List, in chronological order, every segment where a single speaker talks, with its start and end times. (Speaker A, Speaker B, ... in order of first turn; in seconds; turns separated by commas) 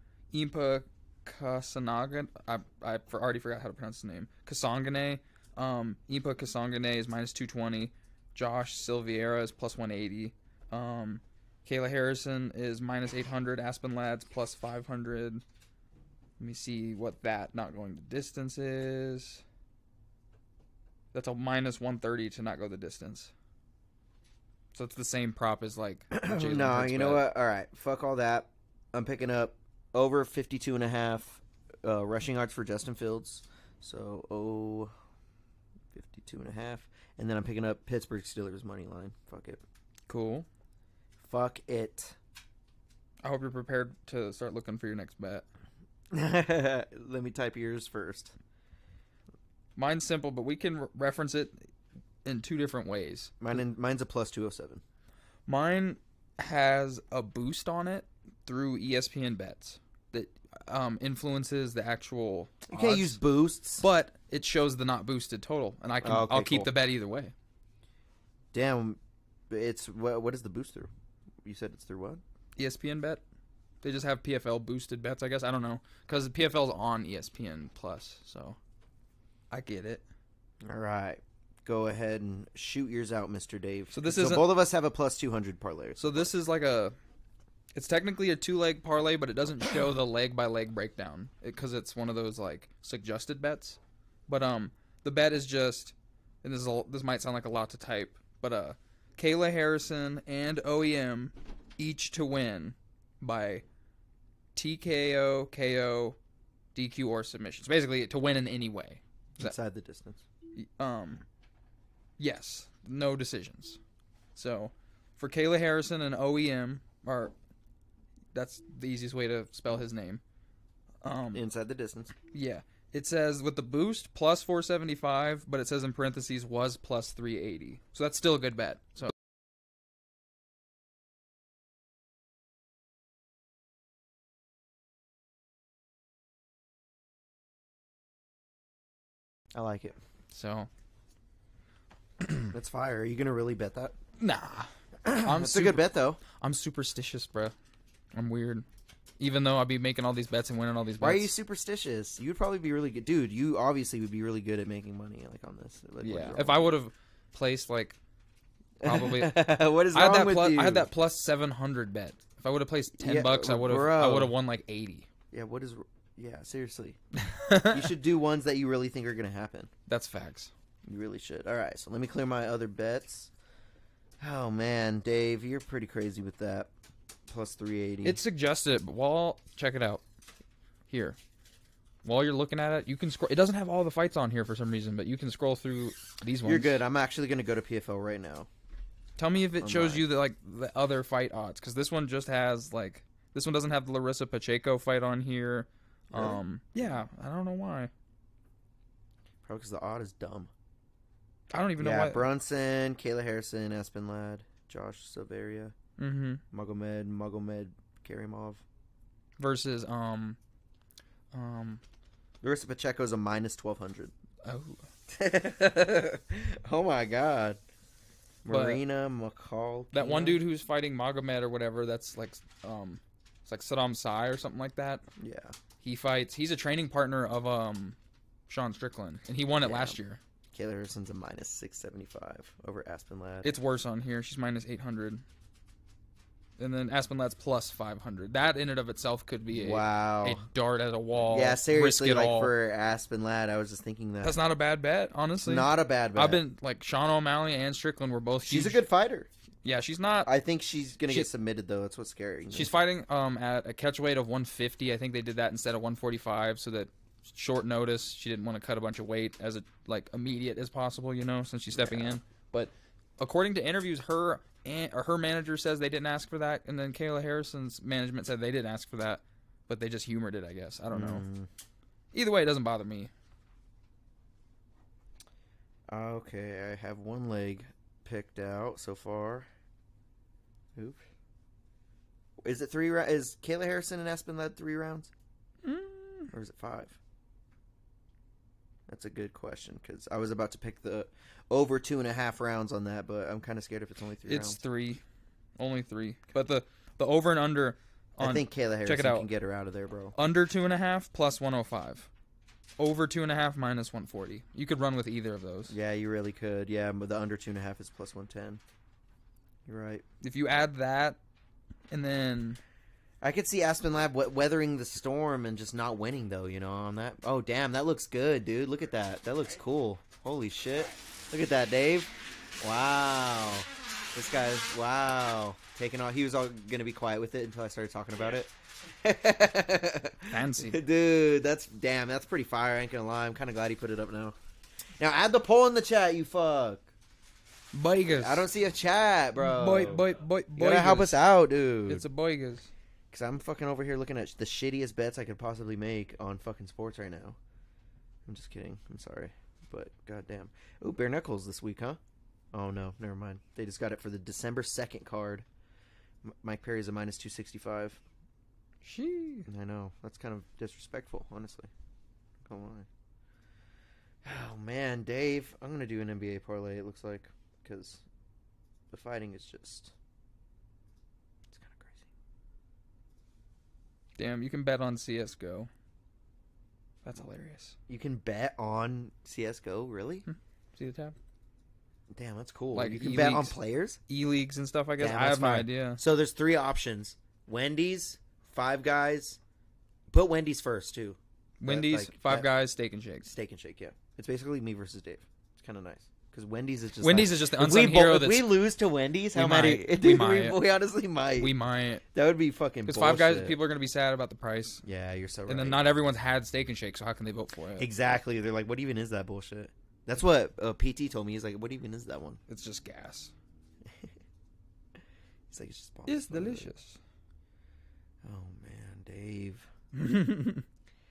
Speaker A: 0.3-15.4, Speaker A: 16.4-19.4, Speaker A: 21.1-23.3, Speaker A: 24.7-27.3, Speaker B: 26.1-34.9, Speaker B: 35.9-39.6, Speaker A: 40.1-40.5, Speaker B: 41.2-42.1, Speaker A: 43.2-45.5, Speaker B: 46.1-48.3, Speaker A: 49.8-51.5, Speaker A: 52.2-53.3, Speaker B: 53.4-54.8, Speaker A: 55.5-63.2, Speaker B: 62.7-63.8, Speaker A: 63.8-67.3, Speaker B: 66.0-66.7, Speaker B: 68.5-69.0, Speaker B: 69.5-70.9, Speaker B: 71.4-72.2, Speaker A: 72.6-73.2, Speaker A: 73.8-78.6, Speaker A: 79.5-80.0, Speaker B: 80.6-86.3, Speaker A: 83.9-84.5, Speaker A: 86.0-87.0, Speaker A: 87.7-103.6, Speaker A: 104.5-106.2, Speaker A: 106.7-109.5, Speaker B: 109.4-110.2, Speaker A: 110.5-111.2, Speaker A: 112.2-113.8, Speaker A: 114.3-117.3, Speaker A: 118.3-120.2, Speaker A: 121.0-121.4, Speaker B: 121.3-122.1, Speaker A: 122.3-129.1, Speaker B: 139.5-140.0, Speaker A: 140.3-140.7, Speaker A: 142.2-142.5, Speaker B: 142.5-143.9, Speaker A: 144.2-144.7, Speaker B: 145.0-146.2, Speaker A: 145.2-147.5, Speaker A: 148.1-148.7, Speaker A: 149.2-151.3, Speaker B: 151.0-156.8, Speaker A: 156.0-158.0, Speaker B: 158.8-160.9, Speaker A: 158.8-165.1, Speaker B: 163.0-164.3, Speaker B: 165.3-167.0, Speaker A: 167.2-167.8, Speaker B: 167.7-169.7, Speaker A: 169.9-170.5, Speaker B: 170.9-173.3, Speaker B: 174.2-176.7, Speaker B: 177.3-178.2, Speaker A: 178.0-180.0, Speaker A: 180.9-181.2, Speaker A: 182.0-186.8, Speaker B: 186.4-188.5, Speaker A: 189.2-197.9, Speaker B: 189.6-190.1, Speaker B: 196.1-196.4, Speaker B: 199.4-200.5, Speaker A: 201.5-202.2, Speaker B: 201.8-205.7, Speaker A: 206.0-206.4, Speaker B: 206.5-208.6, Speaker A: 209.4-210.4, Speaker A: 211.3-211.8, Speaker B: 212.4-214.1, Speaker A: 214.4-214.8, Speaker B: 215.1-217.6, Speaker B: 218.4-220.4, Speaker A: 218.5-218.8, Speaker A: 219.9-225.1, Speaker B: 225.2-225.5, Speaker A: 225.8-228.0, Speaker A: 228.5-230.2, Speaker B: 229.6-230.0, Speaker B: 230.5-233.6, Speaker A: 233.4-235.2, Speaker A: 236.6-242.5, Speaker B: 239.5-240.4, Speaker B: 241.3-244.4, Speaker A: 244.2-248.8, Speaker B: 245.4-246.4, Speaker B: 248.4-249.3, Speaker A: 249.6-250.3, Speaker B: 250.2-252.7, Speaker A: 252.5-271.2, Speaker B: 261.7-262.2, Speaker B: 270.9-271.5, Speaker A: 272.1-273.1, Speaker B: 275.9-279.5, Speaker B: 280.7-281.0, Speaker B: 282.4-285.1, Speaker A: 285.6-286.3, Speaker B: 286.3-287.0, Speaker B: 288.9-294.6, Speaker A: 294.2-295.0, Speaker A: 295.6-299.3, Speaker B: 298.2-300.1, Speaker A: 300.1-302.1, Speaker A: 302.8-305.7, Speaker B: 305.7-308.6, Speaker B: 309.6-310.0, Speaker A: 310.2-311.2, Speaker A: 311.9-312.6, Speaker B: 313.2-334.3, Speaker A: 330.3-330.8, Speaker B: 335.0-336.9, Speaker A: 337.7-338.5, Speaker B: 338.1-342.0, Speaker A: 339.4-341.3, Speaker A: 341.9-342.7, Speaker B: 343.1-347.4, Speaker B: 348.2-352.0, Speaker B: 352.5-355.4, Speaker B: 356.2-358.0, Speaker A: 358.8-359.5, Speaker B: 359.5-361.7, Speaker B: 362.4-362.9, Speaker B: 364.2-368.0, Speaker B: 368.9-369.9, Speaker B: 371.5-372.1, Speaker A: 374.2-375.7, Speaker A: 377.0-377.8, Speaker B: 377.9-380.2, Speaker A: 380.3-381.1, Speaker B: 382.1-384.0, Speaker A: 382.7-383.6, Speaker A: 384.1-386.0, Speaker B: 385.0-389.4, Speaker B: 390.1-392.5, Speaker A: 391.6-393.3, Speaker B: 393.2-403.6, Speaker A: 397.0-398.5, Speaker A: 399.3-400.6, Speaker A: 401.4-402.0, Speaker A: 402.9-404.8, Speaker B: 404.8-405.9, Speaker A: 405.5-407.9, Speaker B: 407.8-412.4, Speaker A: 412.5-413.3, Speaker B: 413.8-414.1, Speaker B: 415.5-416.7, Speaker A: 416.1-417.0, Speaker B: 418.2-419.7, Speaker A: 419.9-420.6